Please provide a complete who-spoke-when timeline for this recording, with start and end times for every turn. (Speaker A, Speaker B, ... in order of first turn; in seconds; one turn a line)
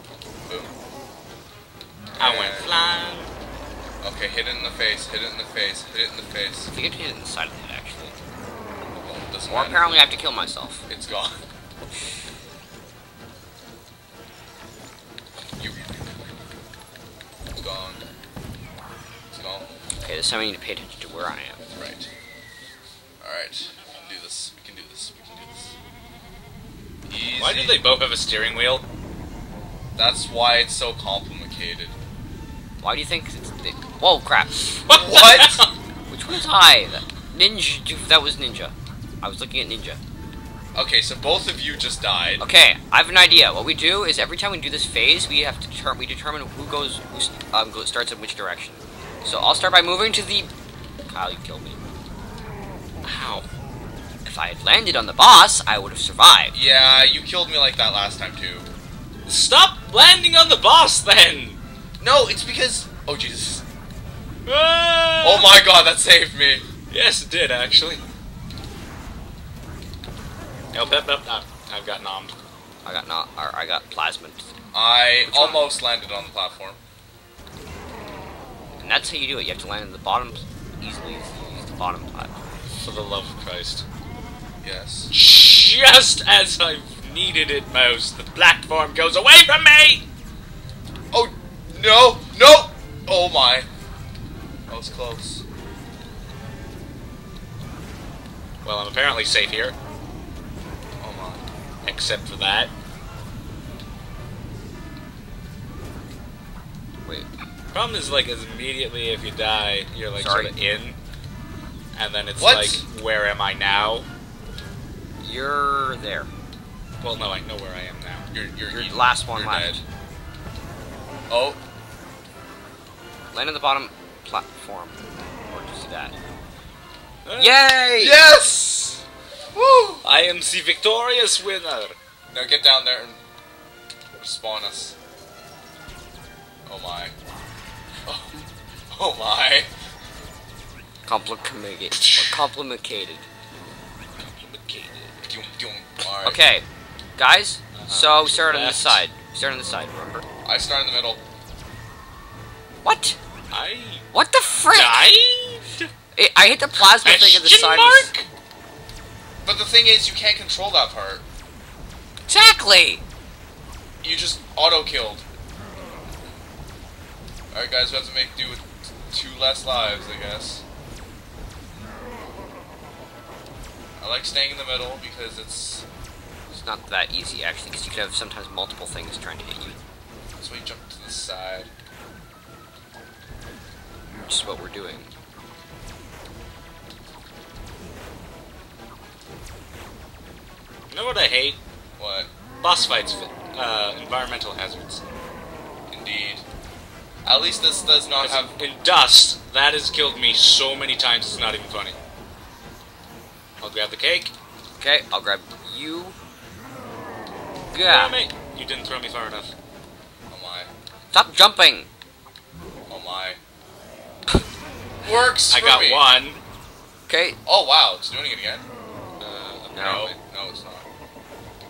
Speaker A: 0.5-0.7
Speaker A: 2.2-2.7
Speaker B: 2.2-3.3
Speaker A: 4.0-6.7
Speaker C: 6.7-8.2
Speaker A: 8.9-9.9
Speaker C: 9.5-10.8
Speaker A: 10.9-11.4
Speaker A: 15.6-15.9
Speaker A: 17.6-18.0
Speaker A: 19.3-19.7
Speaker C: 20.0-21.6
Speaker A: 21.8-22.1
Speaker A: 23.2-25.7
Speaker A: 27.1-27.9
Speaker B: 27.3-28.8
Speaker A: 29.9-31.9
Speaker C: 32.8-34.7
Speaker B: 34.8-35.7
Speaker A: 34.9-35.6
Speaker C: 36.1-40.0
Speaker A: 40.7-42.4
Speaker C: 42.4-50.5
Speaker C: 51.1-51.8
Speaker B: 53.0-53.5
Speaker C: 54.2-56.5
Speaker A: 56.5-58.7
Speaker B: 59.2-61.6
Speaker A: 62.0-63.6
Speaker B: 64.5-65.6
Speaker A: 65.2-66.6
Speaker B: 66.9-68.0
Speaker B: 70.7-72.3
Speaker C: 72.8-74.5
Speaker A: 74.7-76.8
Speaker C: 75.3-75.7
Speaker C: 78.8-82.3
Speaker B: 82.8-83.8
Speaker A: 84.6-85.1
Speaker B: 85.1-90.0
Speaker A: 91.1-93.7
Speaker A: 94.7-95.4
Speaker B: 98.6-99.7
Speaker A: 101.0-101.4
Speaker B: 101.8-102.7
Speaker B: 107.7-111.0
Speaker C: 110.1-110.5
Speaker B: 111.9-114.1
Speaker A: 112.4-112.8
Speaker C: 115.2-116.3
Speaker B: 117.0-118.2
Speaker A: 118.3-119.8
Speaker C: 118.7-119.8
Speaker A: 121.3-121.6
Speaker C: 123.3-126.1
Speaker B: 127.2-127.6
Speaker C: 127.4-128.2
Speaker A: 128.0-129.0
Speaker A: 129.5-130.0
Speaker B: 130.0-131.9
Speaker A: 132.3-133.2
Speaker A: 134.2-134.9
Speaker A: 136.7-137.1
Speaker A: 138.1-139.7
Speaker C: 141.0-143.2
Speaker B: 142.0-142.5
Speaker B: 144.2-145.1
Speaker A: 145.2-146.4
Speaker C: 146.2-146.6
Speaker C: 147.2-150.2
Speaker B: 147.7-149.1
Speaker A: 150.4-151.2
Speaker C: 152.8-153.2
Speaker B: 153.5-154.1
Speaker C: 154.1-155.1
Speaker B: 154.7-155.9
Speaker C: 156.1-158.1
Speaker B: 156.7-158.3
Speaker A: 159.4-161.2
Speaker C: 162.3-163.0
Speaker A: 164.0-165.2
Speaker A: 167.5-170.6
Speaker A: 174.0-175.8
Speaker C: 176.5-179.8
Speaker A: 180.4-181.7
Speaker C: 184.2-185.1
Speaker B: 190.9-191.6
Speaker A: 192.0-192.3
Speaker B: 192.6-195.0
Speaker A: 195.9-196.4
Speaker A: 197.2-198.5
Speaker B: 198.2-201.9
Speaker B: 203.6-204.3
Speaker C: 204.8-206.2
Speaker C: 207.7-208.2
Speaker B: 207.8-209.5
Speaker A: 210.3-210.7
Speaker C: 211.1-211.9
Speaker A: 212.9-213.4
Speaker A: 215.0-216.1
Speaker B: 215.5-216.4
Speaker C: 217.1-217.4
Speaker A: 217.4-218.6
Speaker B: 219.2-220.2
Speaker C: 219.7-220.1
Speaker A: 219.8-220.8